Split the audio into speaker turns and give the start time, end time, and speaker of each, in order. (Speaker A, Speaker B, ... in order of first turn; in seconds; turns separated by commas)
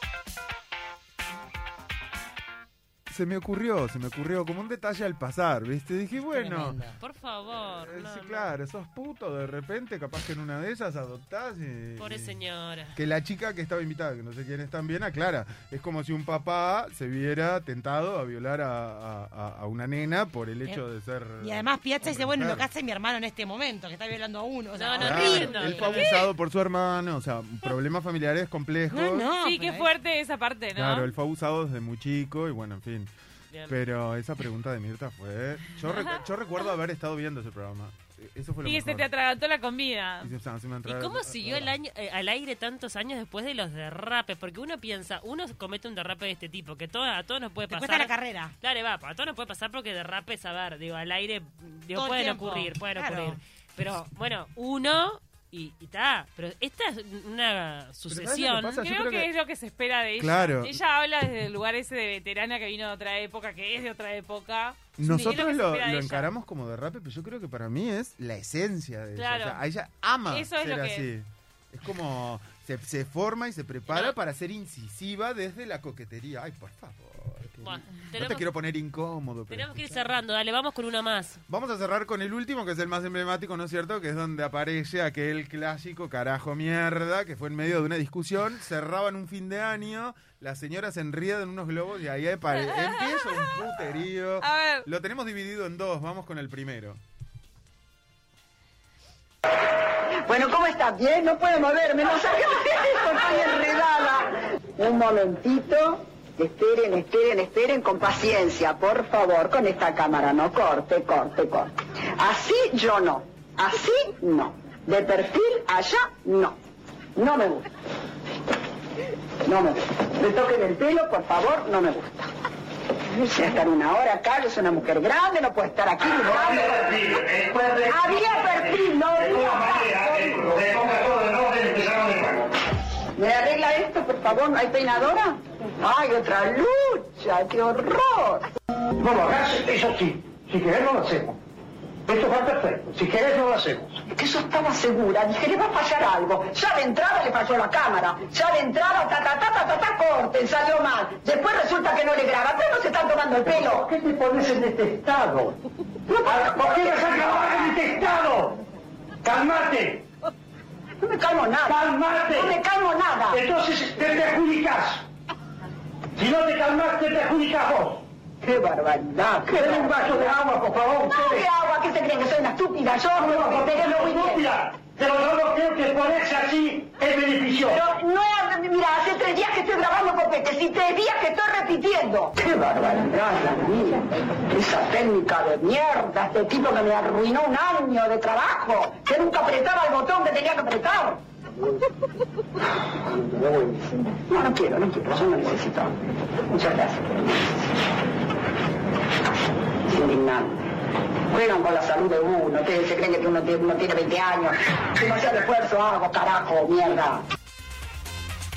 Speaker A: 3.1-6.8, Speaker B: 6.3-7.0, Speaker C: 7.0-8.5, Speaker A: 7.8-12.4, Speaker C: 12.0-13.0, Speaker A: 12.9-22.6, Speaker B: 21.4-26.0, Speaker C: 24.7-26.1, Speaker A: 25.0-29.3, Speaker D: 25.9-26.2, Speaker B: 28.9-29.9, Speaker D: 29.4-31.1, Speaker A: 30.7-33.1, Speaker A: 33.7-39.1, Speaker D: 35.9-36.2, Speaker D: 38.6-40.3, Speaker A: 40.2-41.7, Speaker C: 40.8-58.8, Speaker B: 47.7-48.5, Speaker B: 51.9-53.4, Speaker A: 58.1-59.3, Speaker D: 58.7-66.3, Speaker A: 60.2-60.8, Speaker A: 65.0-80.0, Speaker B: 65.0-65.4, Speaker D: 69.2-69.6, Speaker D: 70.3-71.1, Speaker C: 73.9-74.2, Speaker C: 77.6-78.5, Speaker C: 79.5-81.4, Speaker A: 81.5-97.0, Speaker D: 92.6-93.2, Speaker D: 94.4-94.8, Speaker E: 99.9-116.6, Speaker E: 117.2-117.7, Speaker E: 119.4-122.3, Speaker E: 123.0-127.1, Speaker F: 126.2-132.6, Speaker E: 127.8-130.6, Speaker E: 133.2-138.4, Speaker F: 139.0-141.4, Speaker F: 142.1-144.0, Speaker E: 144.1-153.9, Speaker F: 153.4-158.6, Speaker E: 156.1-157.9, Speaker F: 159.2-160.1, Speaker E: 161.0-163.4, Speaker F: 161.7-162.6, Speaker F: 163.3-165.0, Speaker F: 166.2-168.1, Speaker E: 168.4-170.3, Speaker F: 169.5-171.5, Speaker E: 171.0-174.4, Speaker F: 173.1-177.8, Speaker E: 177.7-191.2, Speaker E: 193.1-197.9, Speaker E: 199.6-200.7, Speaker E: 201.3-207.2